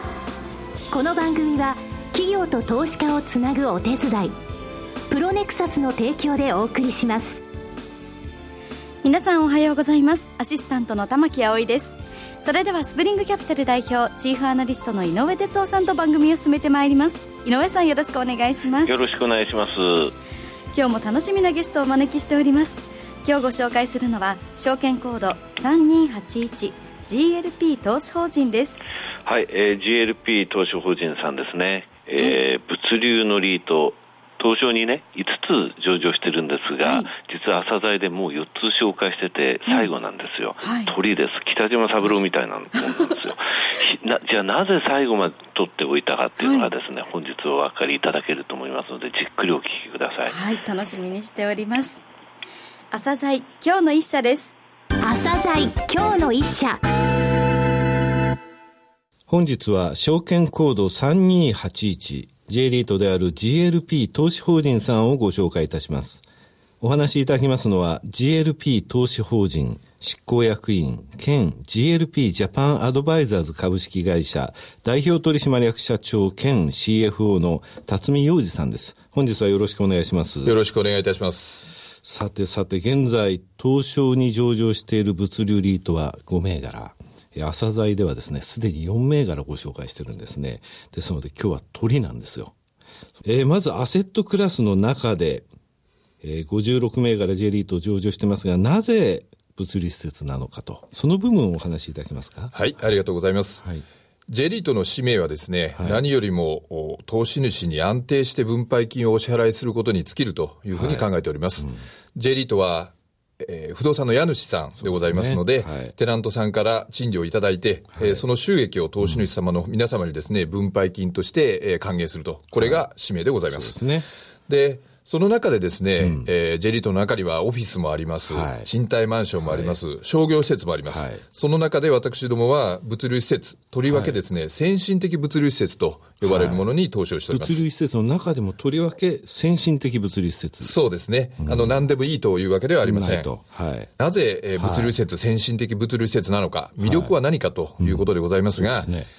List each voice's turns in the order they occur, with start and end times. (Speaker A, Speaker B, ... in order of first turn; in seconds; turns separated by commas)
Speaker A: 0.9-4.3, Speaker A: 5.1-7.4, Speaker B: 9.0-19.0, Speaker C: 18.8-20.1, Speaker B: 20.7-28.8, Speaker C: 29.2-50.4, Speaker B: 36.8-37.1, Speaker B: 40.6-40.9, Speaker B: 46.4-46.7, Speaker B: 50.2-52.0, Speaker B: 52.9-54.5, Speaker A: 55.0-56.8, Speaker D: 59.3-66.2, Speaker D: 66.8-80.5, Speaker E: 80.4-81.7, Speaker D: 82.0-92.5, Speaker D: 93.2-95.5, Speaker D: 96.2-102.5, Speaker E: 102.5-103.6, Speaker E: 104.3-123.8, Speaker D: 105.7-106.0, Speaker D: 110.7-111.1, Speaker D: 111.6-111.8, Speaker D: 114.8-115.9, Speaker D: 118.0-118.2, Speaker D: 119.0-119.3, Speaker D: 122.5-122.8, Speaker D: 123.5-124.0, Speaker E: 124.5-137.6, Speaker D: 126.0-126.3, Speaker D: 128.3-128.7, Speaker D: 129.4-129.8, Speaker D: 130.9-131.2, Speaker D: 133.8-134.2, Speaker D: 136.2-136.6, Speaker D: 137.3-140.7, Speaker E: 140.6-143.3, Speaker D: 141.4-141.8, Speaker D: 142.8-143.9, Speaker E: 144.0-148.9, Speaker D: 144.6-144.9, Speaker D: 146.8-147.2, Speaker D: 147.8-149.1